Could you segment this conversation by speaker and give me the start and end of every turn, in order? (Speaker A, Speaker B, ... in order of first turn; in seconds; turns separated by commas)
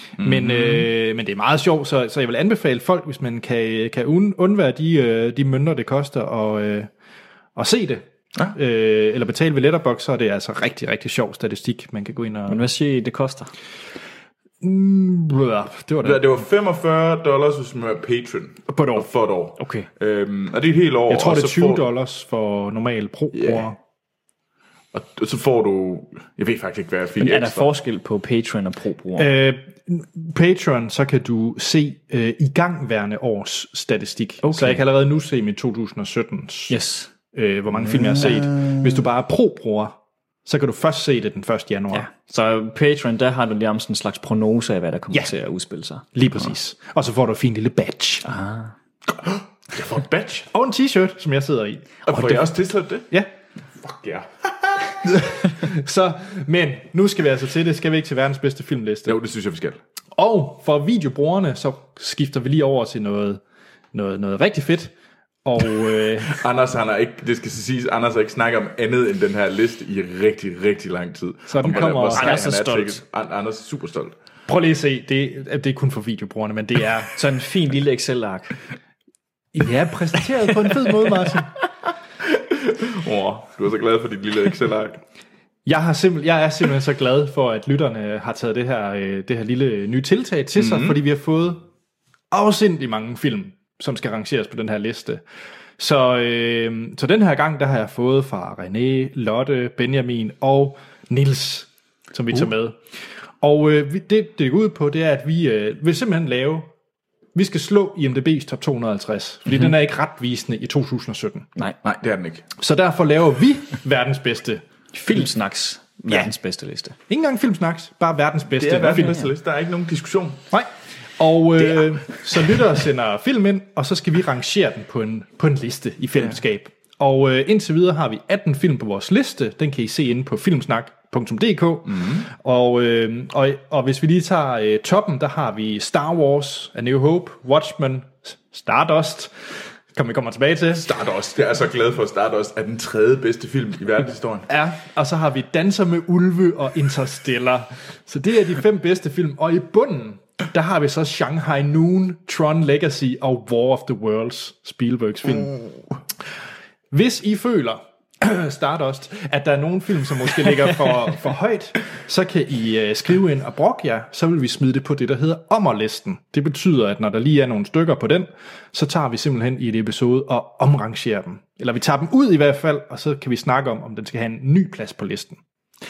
Speaker A: 0.2-6.9, Speaker B: 0.2-0.9, Speaker A: 7.5-12.7, Speaker C: 12.5-13.5, Speaker A: 14.6-16.3, Speaker B: 16.0-21.9, Speaker A: 18.7-19.1, Speaker C: 19.6-19.9, Speaker A: 21.1-23.8, Speaker B: 23.3-23.7, Speaker B: 24.9-27.7, Speaker C: 27.2-29.3, Speaker A: 29.2-36.8, Speaker C: 34.4-34.8, Speaker C: 36.7-37.1, Speaker A: 37.3-39.9, Speaker A: 40.5-42.1, Speaker C: 41.9-46.1, Speaker A: 46.1-48.2, Speaker C: 48.2-48.7, Speaker B: 49.1-50.5, Speaker A: 50.5-52.5, Speaker B: 52.0-53.1, Speaker B: 53.7-55.2, Speaker A: 55.0-59.1, Speaker B: 59.0-59.8, Speaker A: 60.1-63.4, Speaker A: 63.9-64.9, Speaker A: 65.4-66.4, Speaker B: 66.3-74.2, Speaker A: 71.5-72.4, Speaker C: 71.7-73.0, Speaker A: 74.5-77.1, Speaker C: 77.1-78.5, Speaker A: 79.5-81.5, Speaker B: 82.2-85.0, Speaker A: 85.7-91.6, Speaker B: 90.5-91.0, Speaker A: 92.3-95.2, Speaker A: 95.8-102.8, Speaker A: 103.4-106.7, Speaker A: 107.3-111.5, Speaker B: 111.8-112.5, Speaker A: 112.6-114.6, Speaker C: 114.9-117.0, Speaker A: 117.1-119.2, Speaker B: 118.5-120.4, Speaker A: 120.5-139.3, Speaker B: 131.9-132.2, Speaker A: 139.9-140.8, Speaker B: 140.7-144.5, Speaker A: 144.5-155.6, Speaker A: 156.9-175.4